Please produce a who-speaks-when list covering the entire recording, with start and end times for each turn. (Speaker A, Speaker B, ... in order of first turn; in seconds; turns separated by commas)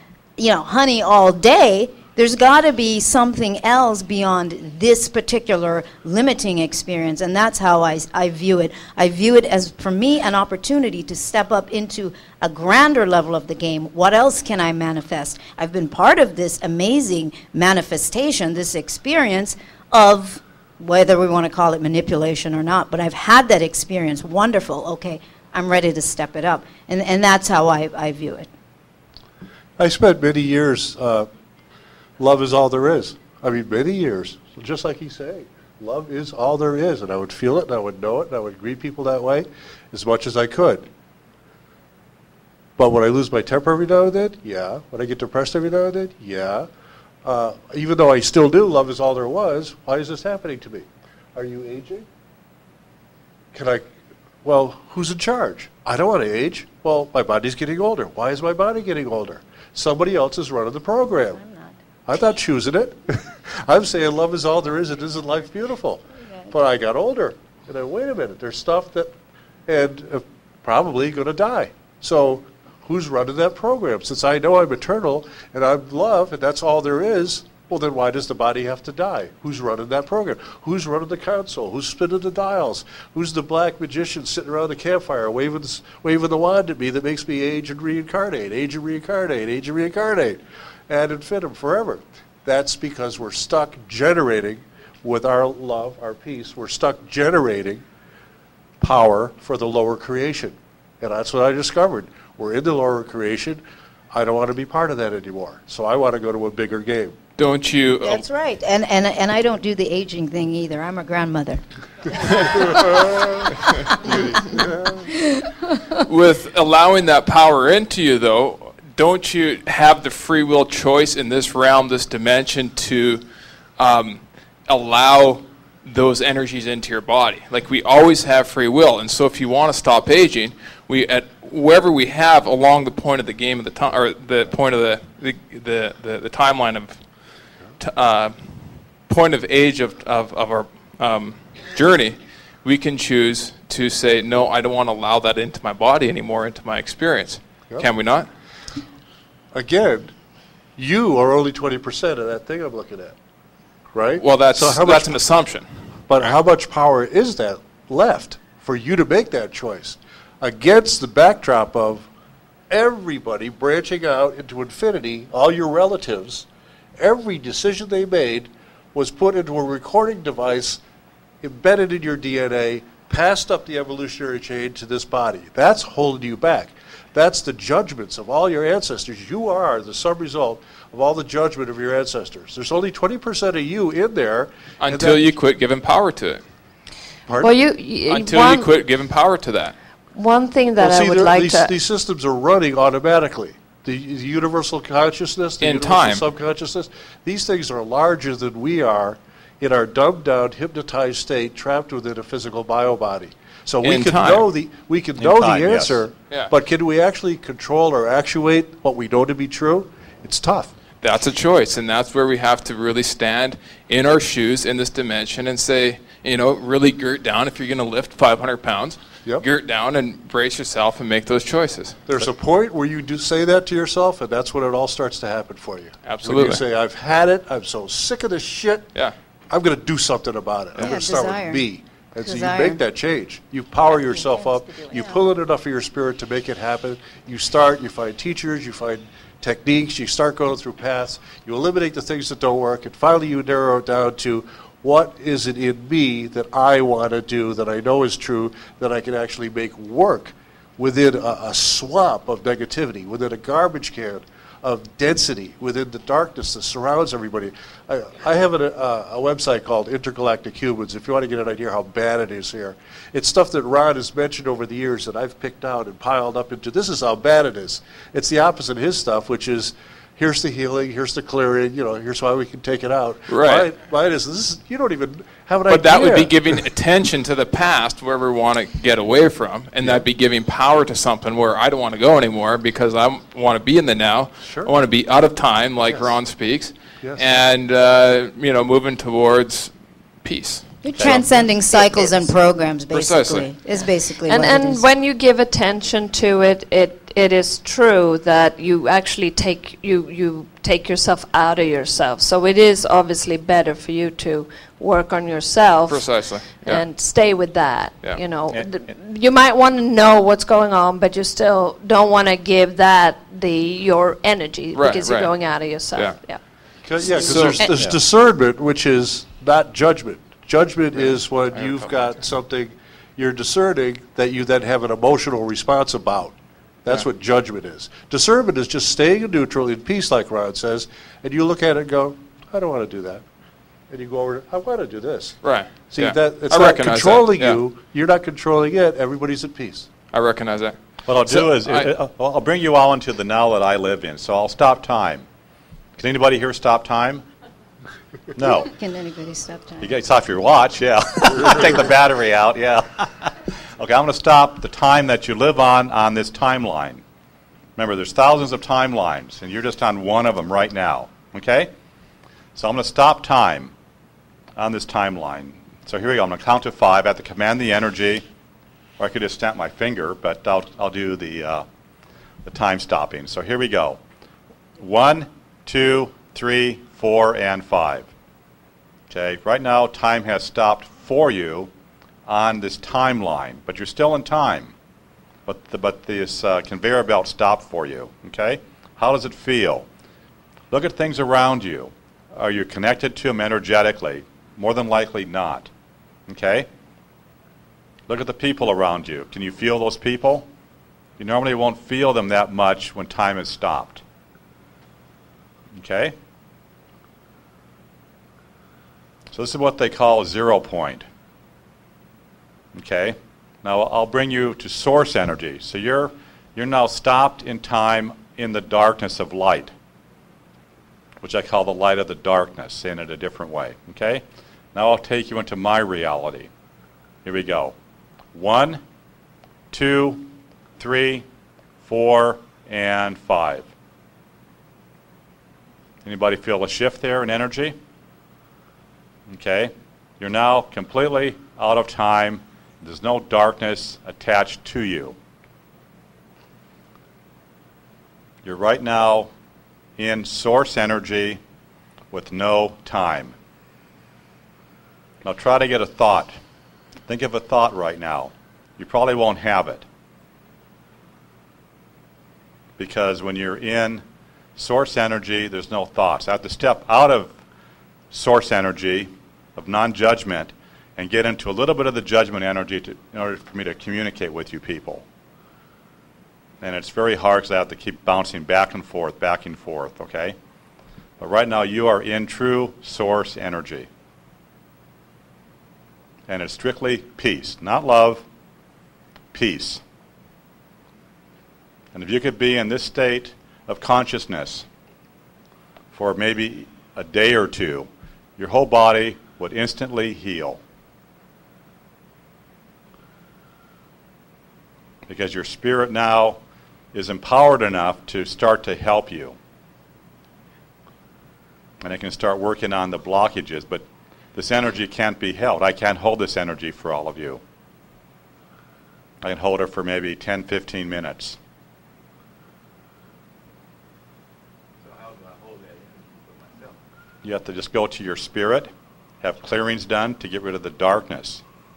Speaker A: 0.4-28.5, Speaker B: 29.8-31.3, Speaker B: 32.2-40.9, Speaker B: 42.8-46.7, Speaker B: 47.2-52.0, Speaker B: 53.5-53.9, Speaker B: 54.4-61.4, Speaker A: 61.4-61.7, Speaker B: 62.0-69.1, Speaker B: 69.7-97.8, Speaker B: 98.8-103.6, Speaker B: 104.1-107.1, Speaker C: 107.4-108.2, Speaker A: 108.0-111.6, Speaker A: 112.1-112.7, Speaker A: 113.7-114.3, Speaker B: 114.1-114.7, Speaker C: 116.1-123.2, Speaker C: 123.8-137.0, Speaker C: 137.8-148.3, Speaker B: 149.5-150.1, Speaker B: 150.8-153.2, Speaker B: 153.9-155.2, Speaker C: 154.2-155.7, Speaker B: 156.1-162.1, Speaker B: 162.7-166.5, Speaker B: 167.0-170.8, Speaker B: 171.4-185.3, Speaker C: 184.8-186.4, Speaker B: 187.3-187.5, Speaker D: 187.4-188.7, Speaker C: 188.1-189.7, Speaker D: 190.1-191.7, Speaker B: 190.8-210.7, Speaker C: 195.6-196.2, Speaker C: 203.8-204.4, Speaker E: 205.2-206.0, Speaker C: 211.0-222.0, Speaker B: 222.1-228.9, Speaker C: 226.0-226.6, Speaker B: 229.5-276.5, Speaker A: 230.8-231.7, Speaker A: 232.2-232.8, Speaker A: 233.9-235.2, Speaker C: 273.3-273.7, Speaker C: 275.7-290.7, Speaker B: 284.4-284.7, Speaker B: 285.8-286.1, Speaker B: 287.0-287.3, Speaker A: 290.8-294.8, Speaker E: 290.9-291.3, Speaker C: 292.9-293.5, Speaker D: 294.3-316.4, Speaker C: 305.9-306.9, Speaker C: 314.7-315.4, Speaker C: 315.9-316.2, Speaker B: 316.8-333.2, Speaker D: 317.1-317.3, Speaker C: 317.1-317.8, Speaker C: 321.5-322.1, Speaker B: 333.9-339.9, Speaker C: 335.4-337.6, Speaker C: 340.1-341.9, Speaker E: 341.1-345.2, Speaker E: 346.0-347.2, Speaker E: 348.3-348.7, Speaker A: 348.7-349.9, Speaker E: 349.8-357.0, Speaker E: 357.8-361.7, Speaker E: 362.5-363.7, Speaker E: 364.6-368.2, Speaker E: 369.0-371.6, Speaker E: 372.4-374.0, Speaker E: 374.8-378.1, Speaker E: 379.1-381.7, Speaker E: 382.2-384.7, Speaker E: 385.4-389.9, Speaker E: 390.7-395.7, Speaker E: 396.3-396.7, Speaker E: 398.1-400.5, Speaker E: 401.2-404.0, Speaker E: 405.8-406.1, Speaker E: 409.3-411.1, Speaker E: 412.7-419.7, Speaker E: 421.2-426.5, Speaker E: 427.2-427.8, Speaker E: 428.3-428.8, Speaker E: 429.7-431.2, Speaker E: 431.8-433.7, Speaker E: 436.0-437.8, Speaker E: 439.3-445.1, Speaker E: 448.4-449.3, Speaker E: 450.0-451.4, Speaker E: 452.1-453.4, Speaker E: 455.2-456.4, Speaker E: 457.1-459.9, Speaker E: 462.8-464.0, Speaker E: 464.6-467.3, Speaker E: 468.1-475.0, Speaker E: 476.6-480.4, Speaker E: 481.2-483.9, Speaker E: 486.3-488.2, Speaker E: 489.3-489.8, Speaker E: 491.9-494.6, Speaker E: 495.9-500.6, Speaker E: 505.1-506.4, Speaker E: 506.9-509.4, Speaker E: 511.8-517.4, Speaker E: 519.2-521.4, Speaker E: 527.2-531.4